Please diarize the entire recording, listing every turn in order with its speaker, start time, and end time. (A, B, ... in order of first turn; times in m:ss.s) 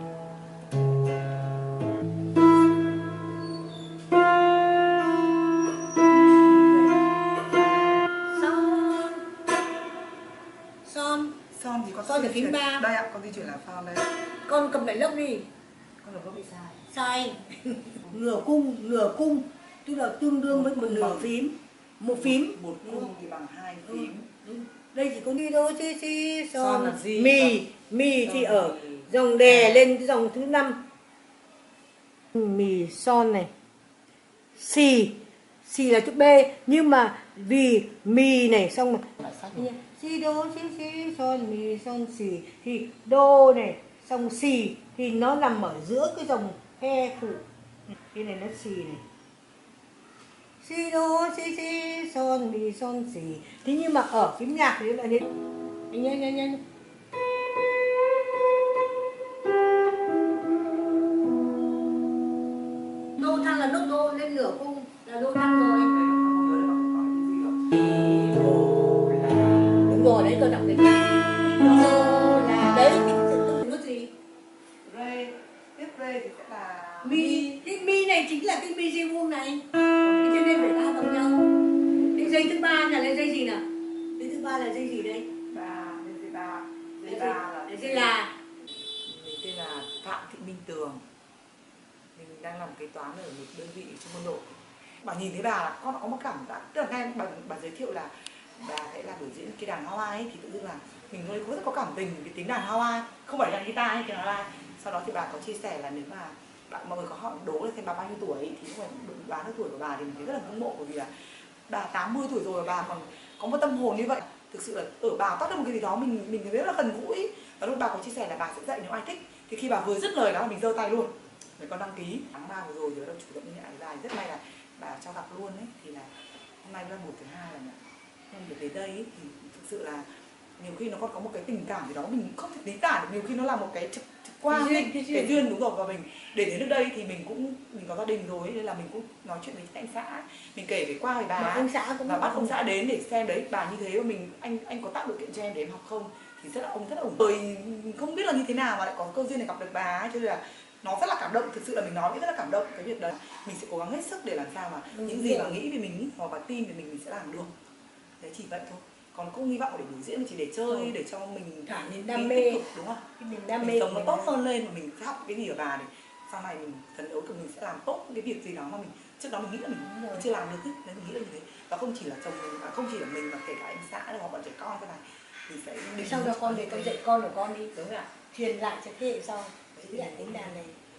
0:06.7-0:07.0 A
0:08.2-0:09.3 A
0:10.8-0:11.3 A
0:11.5-0:14.1 B
0:12.0-0:12.8 A
0:14.5-0:15.4 A
0:16.0-0:16.8 B
0:16.9-0:23.1 A
0:20.5-0:21.3 B
0:22.1-0:24.3 B
0:23.8-0:30.8 A
0:26.5-0:27.6 B
0:28.2-0:29.9 B
0:32.3-0:33.5 A
0:34.6-0:47.4 A
0:39.2-0:39.7 B
0:48.1-0:49.0 A
0:50.6-0:55.3 A
0:55.9-0:56.6 A
1:03.2-1:05.9 A
1:05.9-1:09.8 B
1:09.8-1:14.1 A
1:14.8-1:17.6 B
1:17.0-1:19.7 A
1:20.0-1:20.7 B
1:20.2-1:21.4 A
1:21.9-1:22.5 B
1:22.2-1:23.6 A
1:24.2-1:25.3 A
1:25.5-1:28.2 B
1:27.0-1:28.3 A
1:29.0-1:31.0 B
1:32.1-1:34.4 B
1:35.0-1:51.1 B
1:51.7-2:06.1 B
2:06.6-2:07.8 B
2:08.3-2:10.0 B
2:10.6-2:37.5 B
2:14.5-2:15.4 A
2:21.4-2:22.5 A
2:34.9-2:35.6 A
2:38.2-2:43.0 B
2:41.7-2:42.6 A
2:43.2-2:44.3 A
2:43.6-2:57.0 B
2:49.8-2:50.2 A
2:56.0-2:57.7 A
2:57.7-2:58.1 B
2:58.3-3:00.7 A
2:59.7-3:00.6 B